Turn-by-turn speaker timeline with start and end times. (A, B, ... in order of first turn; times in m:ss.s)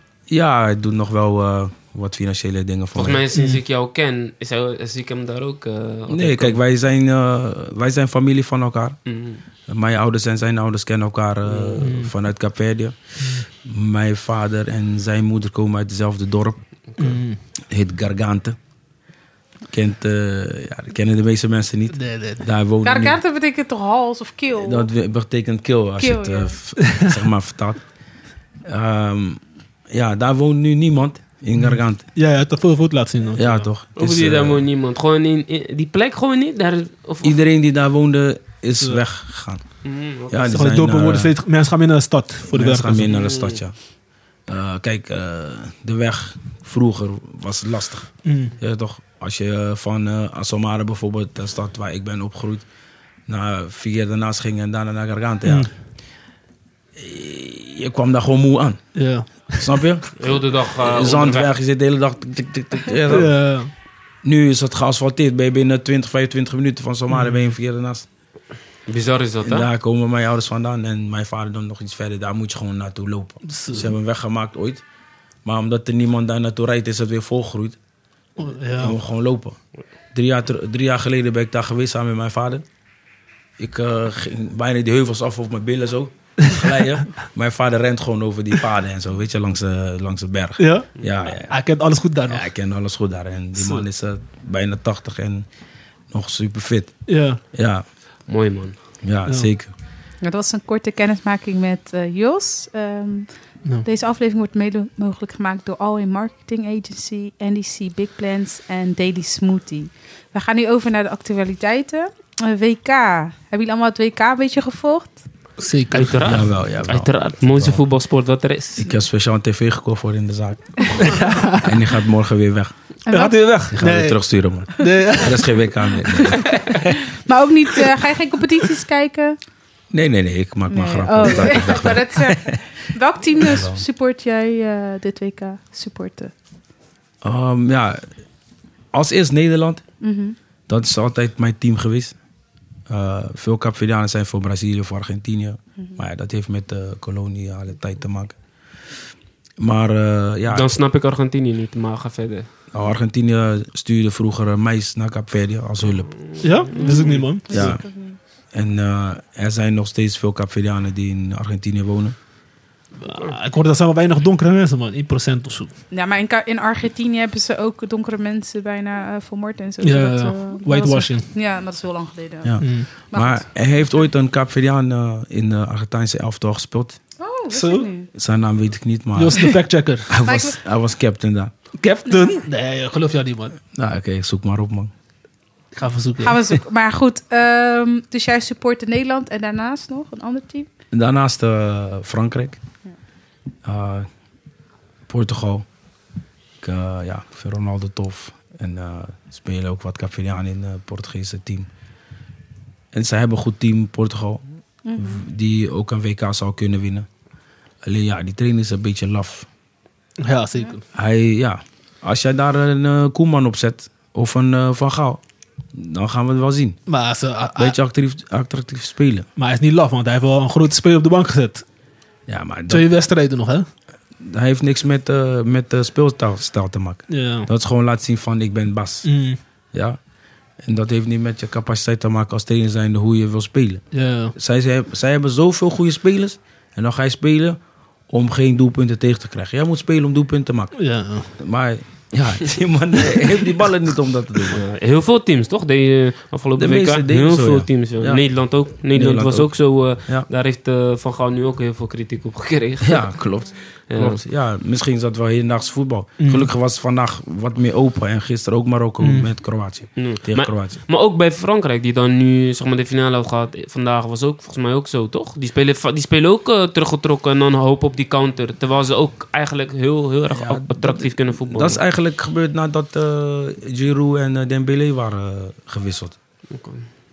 0:00.3-0:03.2 A
0:03.0-0:06.6 B
0:03.4-0:03.6 C
0:06.1-0:09.0 A
0:09.1-0:09.4 B
0:09.7-0:16.6 A
0:11.8-0:12.1 C
0:13.2-0:13.5 C
0:16.9-0:17.2 B
0:17.0-0:17.4 C
0:17.7-0:18.6 A
0:19.7-0:23.2 A
0:21.9-0:22.4 C
0:22.8-0:24.9 D
0:24.6-0:27.8 A
0:26.0-0:26.6 D
0:28.6-0:32.1 A
0:31.6-0:33.7 C
0:33.4-0:34.7 A
0:34.0-0:37.4 B
0:37.2-0:41.3 A
0:39.8-0:40.6 B
0:40.5-0:43.1 C
0:42.5-0:43.8 A
0:43.1-0:43.6 B
0:44.5-0:52.6 A
0:48.2-0:48.5 C
0:53.3-0:55.7 A
0:55.4-0:55.7 C
0:57.0-1:03.5 A
0:59.0-0:59.8 C
1:00.2-1:01.5 B
1:03.1-1:03.7 C
1:04.2-1:08.1 A
1:07.1-1:07.4 C
1:08.9-1:09.7 B
1:09.4-1:14.8 A
1:13.5-1:13.9 C
1:15.4-1:17.8 A
1:18.4-1:19.0 C
1:18.8-1:19.6 A
1:20.1-1:22.6 A
1:23.6-1:31.6 A
1:30.6-1:32.5 C
1:32.3-1:35.4 A
1:33.6-1:33.8 C
1:36.1-1:37.8 A
1:37.1-1:37.4 C
1:38.3-1:38.8 B
1:39.0-1:39.7 A
1:40.2-1:43.3 D
1:43.8-1:55.2 D
1:55.6-1:56.4 C
1:55.9-1:58.9 B
1:56.2-1:57.8 A
1:58.8-2:02.7 A
2:01.0-2:01.8 C
2:03.1-2:03.4 D
2:03.1-2:04.2 C
2:03.7-2:06.9 A
2:04.8-2:05.6 C
2:06.5-2:09.4 D
2:09.9-2:12.6 A
2:10.7-2:16.3 D
2:13.4-2:13.8 A
2:17.2-2:18.1 A
2:18.9-2:19.8 A
2:20.0-2:20.4 D
2:20.7-2:22.2 A
2:22.9-2:29.0 A
2:29.6-2:30.8 A
2:30.5-2:32.5 B
2:32.7-2:36.1 A
2:36.1-2:37.3 B
2:36.4-2:37.8 C
2:36.8-2:38.2 D
2:37.5-2:37.8 A
2:38.5-2:42.2 A
2:43.0-2:45.7 C
2:45.9-2:53.6 D
2:49.8-2:51.3 C
2:52.4-2:57.0 A
2:52.6-2:52.9 C
2:57.2-2:58.1 D
2:57.5-2:57.9 C
2:58.1-3:01.5 A
2:59.2-3:00.2 C
3:00.2-3:00.6 D
3:01.8-3:03.6 C
3:02.1-3:02.4 D
3:03.7-3:04.9 A
3:05.8-3:06.4 C
3:06.2-3:10.7 D
3:10.9-3:12.6 A
3:13.6-3:14.1 A
3:15.1-3:15.6 A
3:16.6-3:21.7 A
3:22.9-3:24.4 A
3:24.8-3:25.2 D
3:25.0-3:27.1 A
3:27.8-3:29.5 A
3:30.2-3:30.8 C
3:30.9-3:35.2 A
3:35.7-3:36.8 A
3:36.9-3:37.8 C
3:37.6-3:39.3 A
3:39.4-3:41.6 C
3:42.3-3:42.9 A
3:42.7-3:43.7 C
3:44.2-3:49.1 A
3:47.1-3:47.5 C
3:49.0-3:49.4 C
3:49.7-3:50.0 A
3:50.6-3:57.6 A
3:53.9-3:54.4 C
3:58.1-4:04.6 A
4:00.8-4:01.3 C
4:04.5-4:13.1 B
4:06.6-4:08.3 A
4:08.9-4:10.3 A
4:12.8-4:20.8 A
4:13.9-4:14.2 B
4:16.2-4:16.5 C
4:19.0-4:19.3 C
4:20.0-4:31.8 B
4:30.3-4:36.2 A
4:36.5-4:36.9 B